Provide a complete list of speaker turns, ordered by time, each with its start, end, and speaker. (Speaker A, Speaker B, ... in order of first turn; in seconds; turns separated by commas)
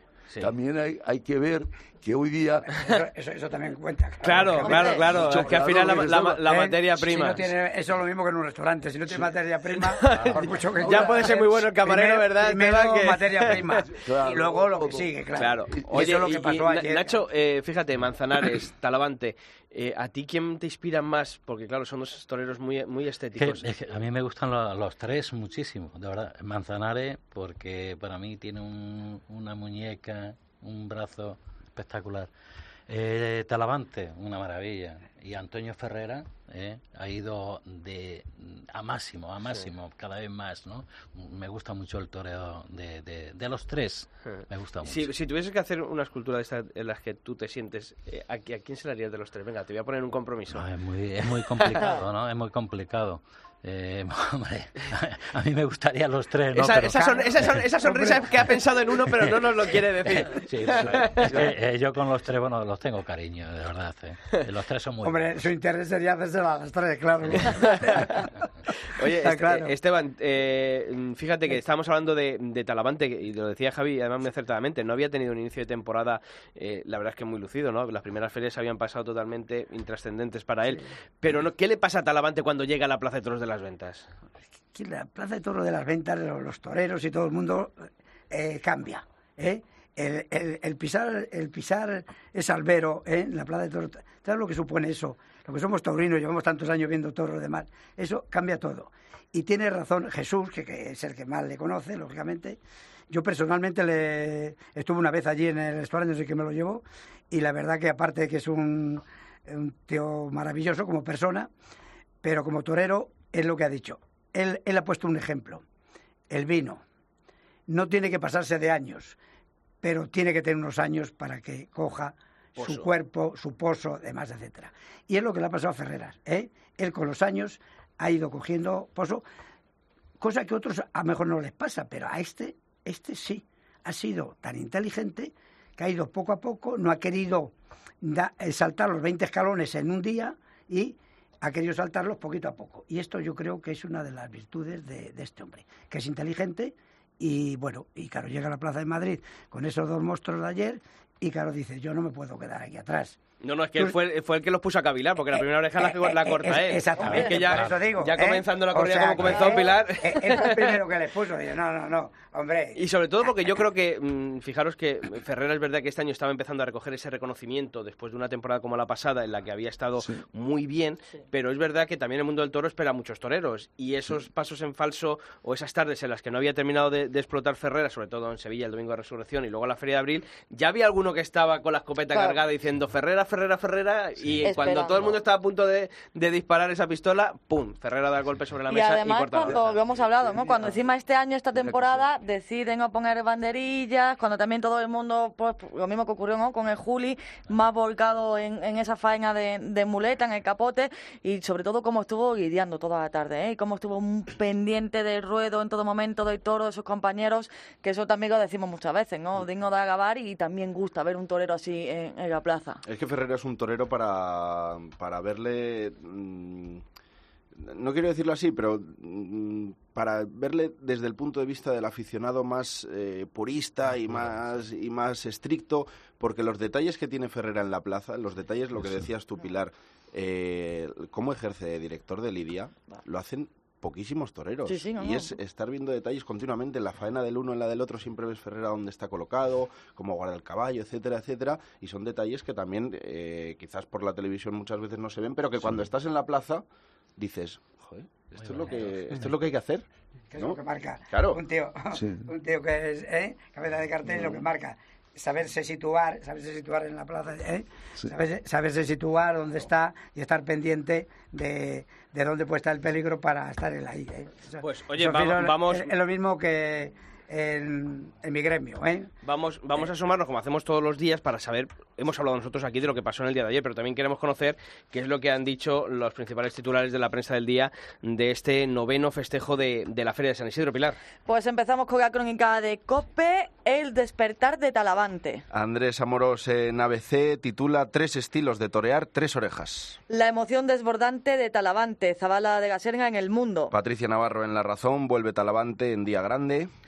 Speaker A: 0.4-2.7, Speaker B: 2.7-17.2, Speaker C: 4.2-7.5, Speaker A: 4.6-6.5, Speaker D: 4.7-5.0, Speaker C: 9.7-13.8, Speaker A: 10.8-11.2, Speaker A: 13.9-16.1, Speaker C: 15.4-23.7, Speaker E: 23.4-32.3, Speaker E: 32.9-45.1, Speaker C: 44.3-50.6, Speaker E: 50.5-57.6, Speaker C: 51.5-51.9, Speaker C: 56.5-61.5, Speaker B: 57.8-58.2, Speaker E: 60.1-65.4, Speaker B: 65.0-68.4, Speaker C: 67.6-67.9, Speaker C: 68.9-84.1, Speaker B: 69.0-69.7, Speaker B: 84.7-87.8, Speaker B: 88.3-111.5, Speaker B: 112.2-115.6, Speaker B: 116.3-116.8, Speaker B: 117.7-119.2, Speaker B: 119.8-129.2, Speaker C: 122.6-122.9, Speaker B: 130.2-153.2, Speaker C: 153.4-160.8, Speaker B: 155.3-162.8, Speaker E: 157.2-157.7, Speaker C: 162.8-189.8, Speaker D: 182.1-182.4, Speaker D: 184.4-185.0, Speaker D: 188.7-212.8, Speaker F: 212.9-216.8, Speaker F: 217.6-246.7, Speaker D: 234.7-235.3, Speaker F: 247.2-251.4, Speaker E: 248.3-249.3, Speaker B: 250.3-269.1, Speaker A: 251.9-252.3, Speaker C: 264.6-265.9, Speaker C: 269.2-281.0, Speaker D: 281.3-285.4, Speaker F: 285.5-290.0, Speaker D: 290.1-293.7, Speaker F: 293.7-296.7